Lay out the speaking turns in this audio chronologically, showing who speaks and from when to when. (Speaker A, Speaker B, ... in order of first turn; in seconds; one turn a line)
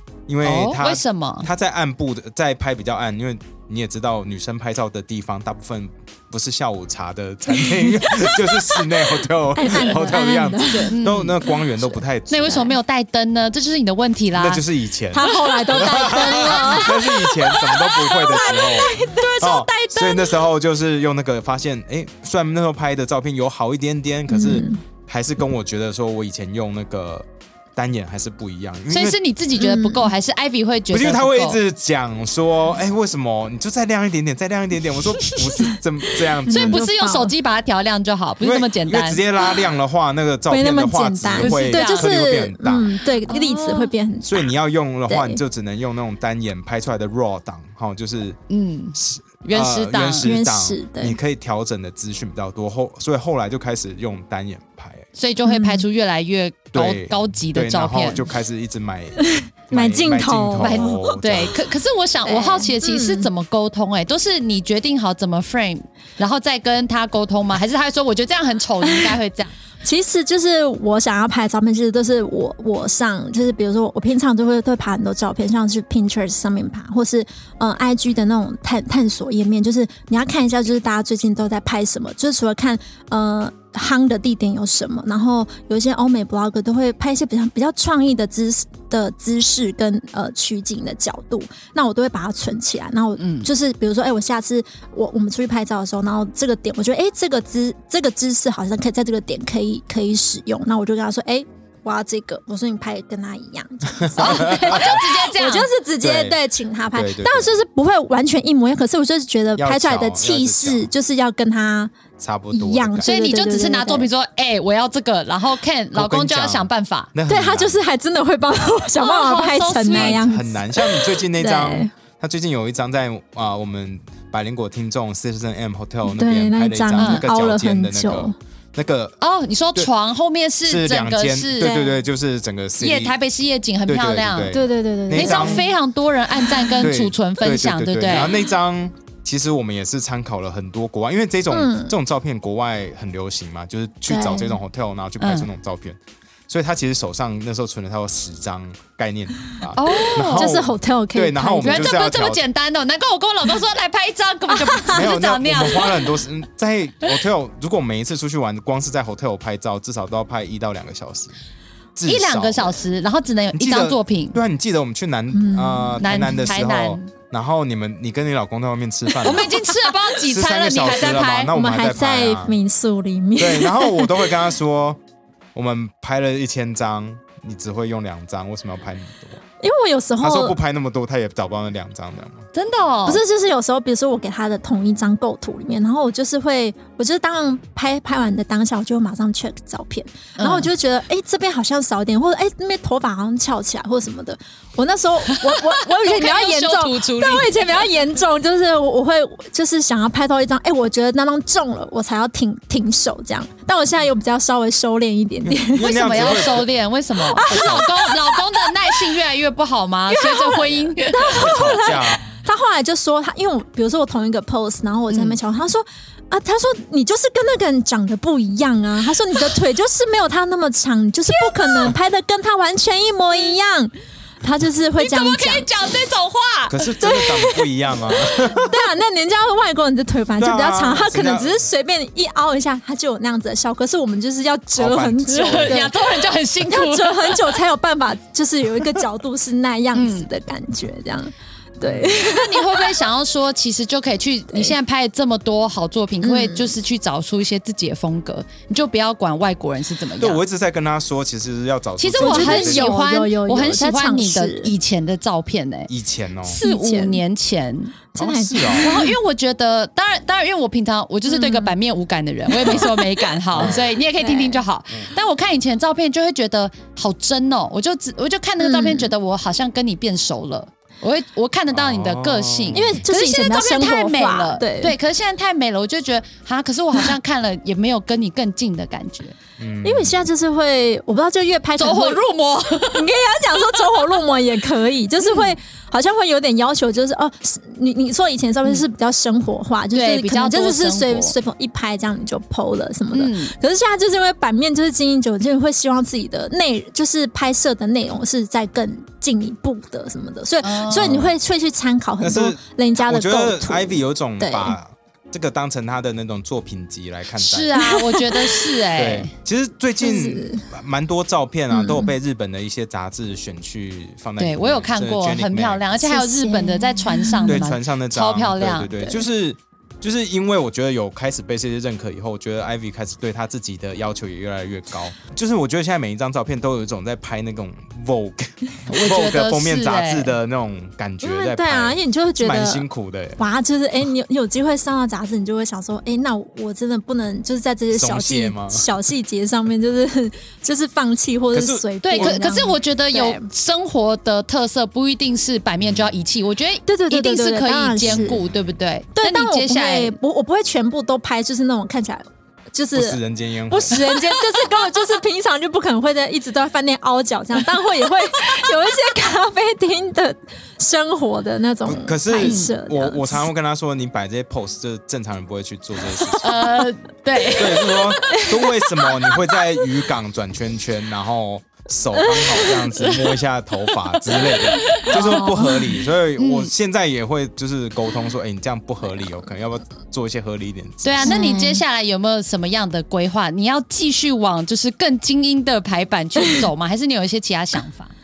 Speaker A: 0.3-12.7
Speaker B: 0.4-1.5
Speaker C: 7.5-8.8
Speaker C: 9.5-11.0
Speaker B: 10.7-11.3
Speaker B: 12.3-14.6
Speaker A: 14.3-29.2
Speaker C: 15.1-20.5
Speaker B: 15.3-15.9
Speaker B: 16.4-16.8
Speaker C: 24.3-24.8
Speaker B: 28.9-31.6
Speaker C: 29.6-30.1
Speaker A: 30.9-36.8
Speaker C: 36.5-37.3
Speaker B: 36.5-39.2
Speaker A: 38.4-42.9
Speaker C: 40.5-44.5
Speaker B: 41.4-42.1
Speaker B: 43.3-43.9
Speaker A: 44.3-48.4
Speaker C: 45.1-45.4
Speaker B: 48.5-50.3
Speaker A: 48.9-55.1
Speaker C: 50.2-51.2
Speaker B: 55.1-58.3
Speaker C: 55.4-55.9
Speaker A: 56.7-61.6
Speaker C: 59.2-61.2
Speaker B: 60.6-69.5
Speaker C: 62.2-63.3
Speaker C: 68.8-69.2
Speaker C: 69.8-112.0
Speaker B: 93.2-93.5
Speaker A: 103.9-105.0
Speaker B: 104.2-105.7
Speaker A: 106.0-106.4
Speaker A: 106.9-107.5
Speaker A: 109.6-110.9
Speaker A: 112.2-113.1
Speaker C: 112.5-114.1
Speaker B: 113.0-117.1
Speaker A: 115.9-117.8
Speaker C: 117.3-121.9
Speaker B: 119.0-120.2
Speaker A: 119.9-129.2
Speaker C: 126.1-128.3
Speaker B: 127.0-127.2
Speaker B: 129.2-131.9
Speaker A: 130.7-133.2
Speaker C: 131.6-131.9
Speaker B: 132.8-134.6
Speaker A: 133.9-135.6
Speaker C: 134.5-135.7
Speaker B: 135.1-138.4
Speaker A: 136.8-146.0
Speaker C: 141.5-141.9
Speaker C: 144.1-144.6
Speaker B: 145.2-145.5
Speaker A: 146.5-152.4
Speaker B: 149.8-150.5
Speaker C: 150.3-151.9
Speaker B: 151.6-156.1
Speaker C: 154.6-155.0
Speaker A: 154.9-161.4
Speaker A: 162.0-162.8
Speaker B: 162.1-164.4
Speaker A: 163.5-169.6
Speaker C: 165.3-166.1
Speaker B: 166.0-167.1
Speaker B: 169.2-171.5
Speaker C: 169.2-169.8
Speaker A: 170.2-172.6
Speaker C: 171.5-174.3
Speaker A: 173.4-175.0
Speaker A: 175.6-179.4
Speaker C: 179.6-180.6
Speaker A: 180.2-182.5
Speaker B: 182.5-183.2
Speaker C: 183.1-206.6
Speaker B: 190.4-190.7
Speaker B: 195.3-197.9
Speaker A: 205.4-206.7
Speaker B: 205.8-211.8
Speaker C: 207.2-209.1
Speaker A: 207.4-207.9
Speaker C: 210.1-225.7
Speaker A: 211.3-212.4
Speaker B: 215.1-215.4
Speaker B: 221.3-221.9
Speaker B: 225.0-226.9
Speaker A: 226.7-228.8
Speaker C: 227.0-227.7
Speaker C: 228.3-236.1
Speaker A: 230.4-231.6
Speaker A: 234.8-235.8
Speaker B: 235.3-237.6
Speaker C: 236.6-243.0
Speaker B: 239.9-240.3
Speaker A: 241.8-242.2
Speaker B: 242.1-250.4
Speaker C: 246.2-246.8
Speaker A: 250.2-253.0
Speaker B: 252.0-255.9
Speaker C: 252.2-254.7
Speaker A: 255.9-256.6
Speaker B: 256.4-258.0
Speaker C: 256.6-257.2
Speaker C: 258.1-259.2
Speaker A: 258.2-258.9
Speaker B: 258.8-279.4
Speaker C: 261.3-261.8
Speaker C: 262.5-264.6
Speaker A: 263.5-263.9
Speaker C: 268.6-269.1
Speaker A: 271.7-273.0
Speaker C: 272.7-275.0
Speaker A: 279.6-280.2
Speaker C: 279.8-282.2
Speaker B: 281.8-283.1
Speaker C: 282.8-304.8
Speaker B: 285.2-285.5
Speaker B: 289.9-291.4
Speaker B: 293.1-293.5
Speaker B: 300.6-301.2
Speaker A: 301.0-301.3
Speaker A: 302.2-307.8
Speaker B: 307.4-309.3
Speaker C: 307.8-308.7
Speaker A: 308.9-315.9
Speaker C: 310.0-310.7
Speaker C: 311.7-312.1
Speaker B: 314.4-319.0
Speaker C: 316.0-317.7
Speaker A: 317.5-333.4
Speaker B: 328.9-330.4
Speaker C: 331.2-332.9
Speaker C: 333.4-343.5
Speaker A: 337.9-338.9
Speaker A: 341.5-342.4
Speaker B: 342.0-350.2
Speaker A: 345.8-346.1
Speaker C: 346.9-348.4
Speaker A: 348.0-348.5
Speaker C: 349.1-363.5
Speaker A: 352.9-354.0
Speaker B: 354.0-354.7
Speaker A: 361.9-366.8
Speaker B: 362.4-362.8
Speaker B: 366.4-368.3
Speaker A: 367.5-381.4
Speaker B: 374.5-376.7
Speaker C: 375.1-375.6
Speaker B: 381.0-388.1
Speaker C: 381.2-381.8